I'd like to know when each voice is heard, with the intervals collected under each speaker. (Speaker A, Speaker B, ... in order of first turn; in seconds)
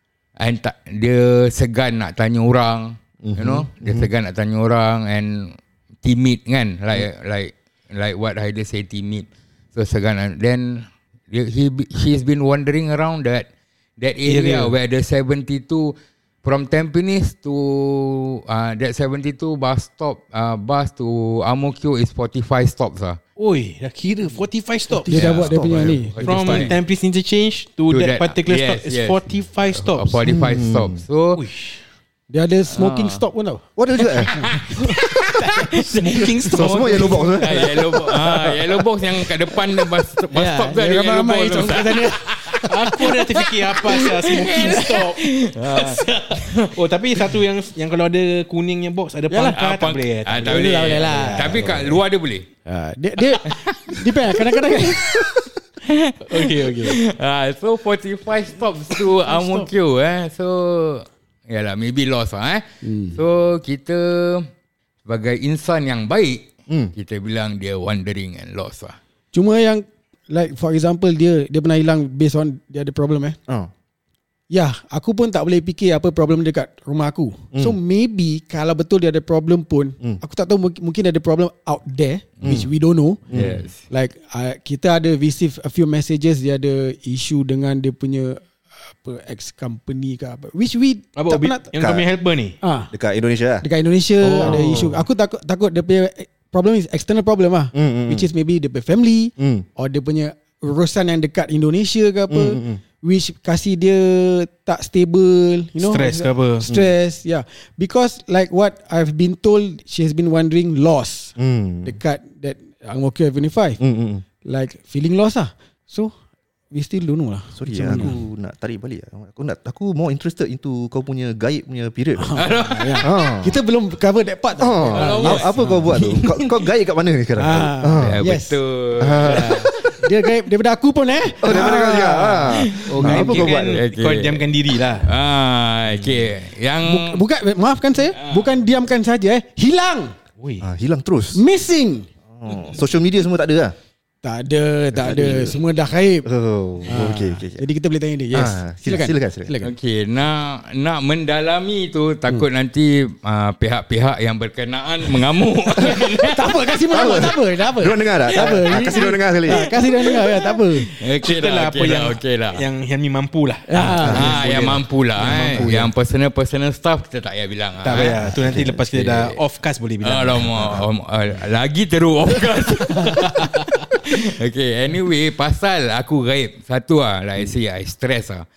Speaker A: 0.4-13.5, 14.0-23.2, 25.1-26.8, 27.9-31.4, 32.7-33.2, 34.2-47.3, 49.4-52.5, 53.4-64.5, 65.0-69.0, 83.3-83.8, 122.3-123.1, 124.9-125.6, 128.0-129.7, 132.5-134.5, 135.0-137.2, 138.2-138.4, 149.6-157.2, 159.5-162.7, 164.1-169.4, 170.0-178.4
Speaker B: 3.2-4.1, 25.1-26.0, 30.2-31.0, 33.8-34.3, 36.5-37.8, 66.7-66.9, 82.4-82.7, 83.3-83.6, 91.8-92.1, 92.9-93.7, 94.4-95.0, 97.7-98.3, 99.4-99.7, 102.3-102.8, 106.6-106.9, 111.4-112.0, 113.8-114.2, 117.5-122.4, 123.0-123.6, 124.6-128.2, 129.0-129.6, 131.4-133.8, 140.6-141.4, 142.3-143.7, 144.9-145.6, 146.2-147.7, 148.3-149.5, 156.9-159.7, 164.0-164.4, 165.2-165.9, 168.2-168.7
Speaker C: 14.2-14.8, 23.4-25.3, 26.2-30.2, 31.4-31.8, 35.7-38.6, 42.6-52.0, 56.2-57.0, 91.1-92.6, 94.2-94.9, 105.8-106.7, 125.1-125.8, 132.9-135.1, 135.9-136.3, 140.4-140.7, 161.2-165.7, 167.8-170.8
Speaker D: 25.0-26.7, 32.3-33.6, 34.3-34.8, 40.3-43.1, 44.4-44.9, 49.3-49.6, 50.4-51.7, 52.6-55.3, 62.8-63.2, 69.3-73.4, 74.5-83.2, 83.9-91.7, 92.6-92.9, 93.6-113.8, 114.4-116.1, 116.7-118.2, 122.2-126.4, 127.4-128.6, 129.1-133.5, 136.8-140.1, 141.3-142.1, 144.2-146.3, 146.8-149.7, 155.8-160.9, 163.7-164.3